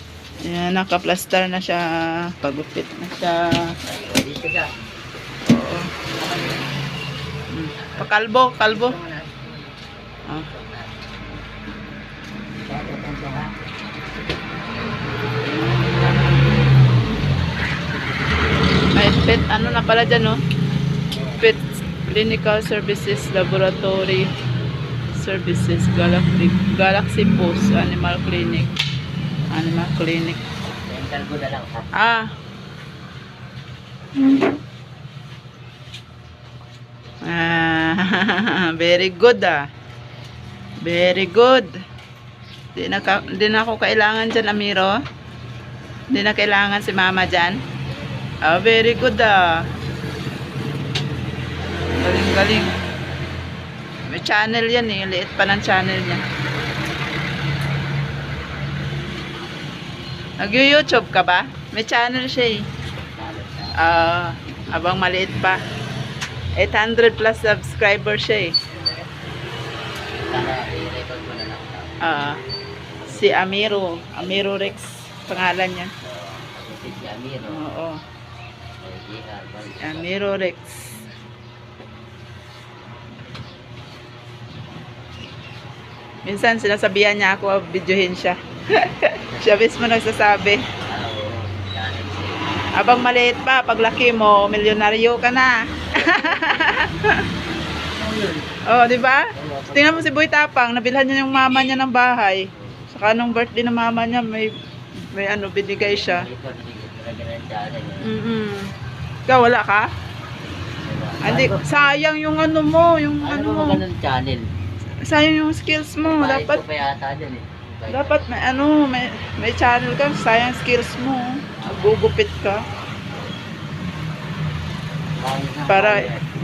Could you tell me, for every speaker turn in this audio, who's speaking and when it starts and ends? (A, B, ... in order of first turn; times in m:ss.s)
0:00.4-0:03.7 A
0:03.8-0:04.7 B
0:05.5-0:05.9 A
0:06.1-0:06.7 B
0:07.5-0:09.0 A
0:07.7-0:08.1 B
0:08.6-0:11.1 B
0:12.6-0:13.6 B
0:15.8-0:16.6 B
0:18.9-0:20.4 A
0:19.4-0:20.2 B
0:21.1-0:21.4 B
0:21.4-0:24.3 A
0:25.2-0:28.7 A
0:29.5-0:30.4 A
0:30.7-0:31.9 B
0:31.9-0:32.3 A
0:37.3-0:39.6 A
0:40.8-0:41.7 A
0:42.8-0:45.0 A
0:43.0-0:43.4 B
0:46.1-0:47.6 A
0:48.4-0:49.5 A
0:52.0-0:52.7 A
0:54.0-0:56.2 A
1:00.4-1:02.6 A
1:03.1-1:03.8 B
1:03.8-1:05.6 A
1:06.6-1:08.5 A
1:10.1-1:12.0 B
1:12.0-1:12.4 A
1:13.0-1:14.7 B
1:13.1-1:15.9 A
1:16.0-1:17.6 B
1:17.5-1:18.0 A
1:18.8-1:20.3 B
1:19.8-1:20.9 A
1:26.2-1:30.6 A
1:29.3-1:29.6 B
1:30.8-1:32.4 B
1:32.7-1:37.2 A
1:35.9-1:36.9 B
1:37.9-1:38.6 B
1:38.7-1:44.5 A
1:39.3-1:40.1 B
1:42.5-1:42.8 B
1:45.1-1:46.3 A
1:45.8-1:48.1 B
1:48.0-1:48.7 A
1:49.3-1:49.9 A
1:50.8-1:52.0 B
1:51.2-1:53.8 A
1:53.2-1:54.4 B
1:55.0-1:56.6 A
1:56.0-1:58.3 B
1:57.9-2:02.6 A
2:01.5-2:02.1 B
2:05.1-2:06.3 B
2:05.7-2:06.1 A